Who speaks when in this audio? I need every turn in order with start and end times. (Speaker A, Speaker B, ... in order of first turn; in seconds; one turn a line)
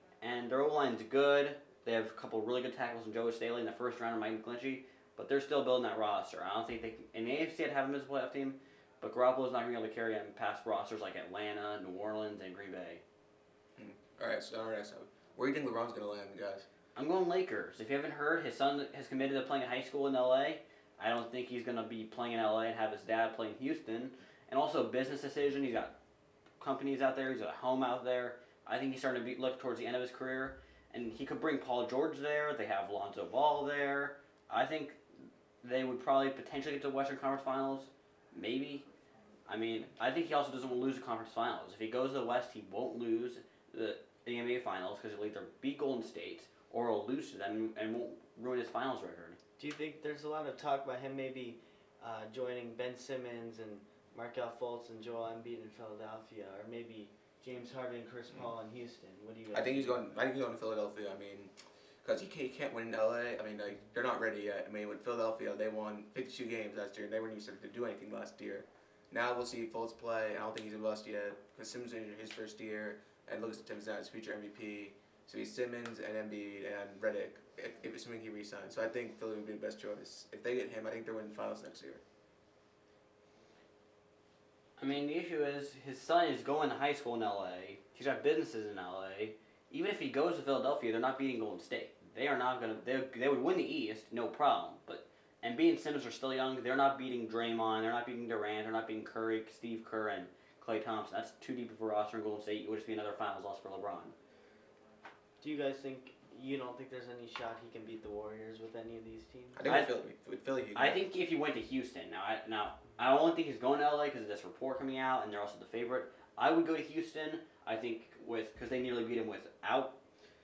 Speaker A: 0.2-13.0
Speaker B: 13.8-16.7
Speaker A: 16.9-25.9
Speaker A: 26.6-35.0
Speaker A: 35.6-38.9
Speaker A: 39.5-49.4
Speaker C: 49.6-60.0
Speaker B: 59.5-82.0
Speaker A: 84.8-104.1
Speaker C: 105.4-109.6
Speaker B: 109.5-111.0
Speaker A: 109.6-110.0
Speaker A: 110.7-120.0